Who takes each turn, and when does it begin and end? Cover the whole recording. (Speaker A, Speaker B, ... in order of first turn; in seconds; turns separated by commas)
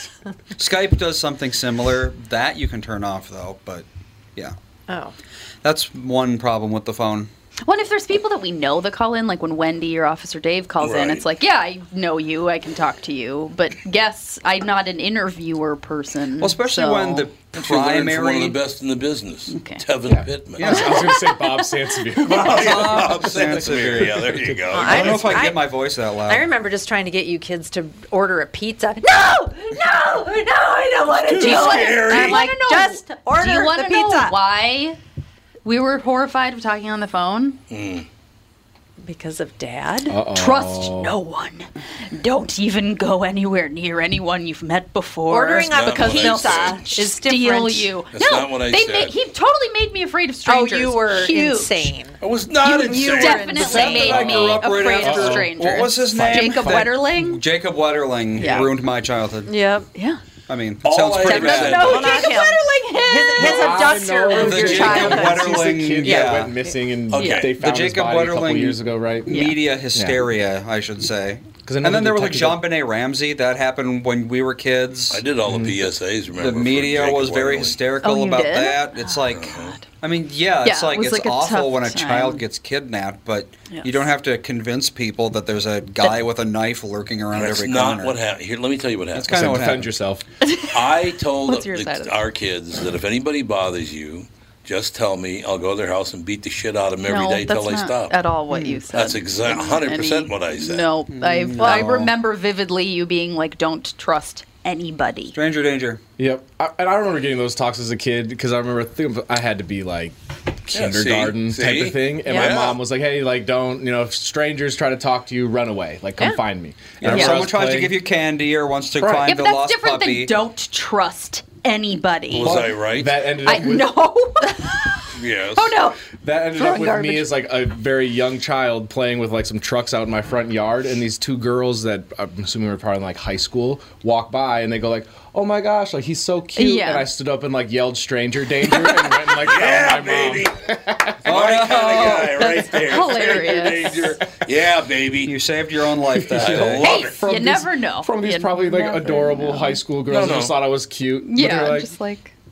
Speaker A: 0.6-4.5, Speaker B: 4.9-5.1, Speaker A: 5.6-7.3, Speaker C: 7.7-17.3, Speaker D: 10.8-11.2, Speaker A: 16.4-18.6, Speaker D: 17.5-21.0, Speaker C: 19.5-19.8, Speaker E: 20.1-23.7, Speaker A: 20.6-21.0, Speaker C: 20.6-21.5, Speaker D: 22.2-25.6, Speaker A: 22.4-26.5, Speaker B: 24.7-25.7, Speaker B: 26.2-34.4, Speaker C: 29.0-29.4, Speaker D: 31.3-32.5, Speaker C: 31.4-35.0, Speaker C: 35.6-37.6, Speaker D: 37.7-38.1, Speaker B: 39.0-40.2, Speaker E: 40.1-41.1, Speaker C: 40.3-51.9, Speaker B: 45.3-48.0, Speaker D: 45.6-47.0, Speaker D: 48.1-49.1, Speaker B: 50.5-54.2, Speaker D: 52.2-53.9, Speaker C: 52.6-57.4, Speaker E: 53.6-57.0, Speaker A: 53.6-59.6, Speaker C: 58.4-58.7, Speaker B: 59.5-59.9, Speaker C: 59.9-60.2, Speaker A: 60.5-62.2, Speaker D: 60.8-62.4, Speaker C: 61.2-65.3, Speaker B: 61.7-66.7, Speaker E: 63.4-70.2, Speaker A: 64.3-66.6, Speaker D: 67.1-67.6, Speaker C: 67.2-67.5, Speaker A: 67.5-75.2, Speaker C: 69.3-69.6, Speaker E: 71.5-72.7, Speaker D: 75.1-77.8, Speaker E: 75.5-75.8, Speaker A: 76.4-88.2, Speaker C: 78.0-79.9, Speaker D: 79.3-79.8, Speaker C: 80.6-82.4, Speaker C: 83.7-84.0, Speaker D: 87.3-89.6, Speaker A: 89.1-89.9, Speaker E: 89.2-90.2, Speaker C: 90.4-90.8, Speaker D: 90.7-98.2, Speaker C: 91.5-92.2, Speaker C: 97.1-105.4, Speaker A: 98.5-98.8, Speaker D: 98.9-100.9, Speaker A: 101.1-102.1, Speaker A: 105.3-106.0, Speaker E: 106.2-110.2, Speaker E: 110.7-118.0, Speaker D: 110.7-112.8, Speaker B: 112.3-112.6, Speaker A: 117.0-120.3, Speaker C: 117.1-117.4, Speaker E: 119.0-119.3, Speaker C: 119.1-122.6, Speaker D: 122.3-123.3, Speaker E: 122.4-124.0, Speaker C: 123.4-126.0, Speaker D: 125.2-125.8, Speaker E: 126.1-141.3, Speaker C: 126.6-127.3, Speaker C: 136.6-137.1, Speaker D: 138.7-140.6, Speaker D: 141.2-145.4, Speaker A: 141.3-142.4, Speaker C: 142.2-144.1, Speaker A: 145.2-147.0, Speaker E: 146.2-151.9, Speaker D: 146.3-147.2, Speaker C: 146.8-149.8, Speaker D: 150.1-150.6, Speaker C: 151.2-152.3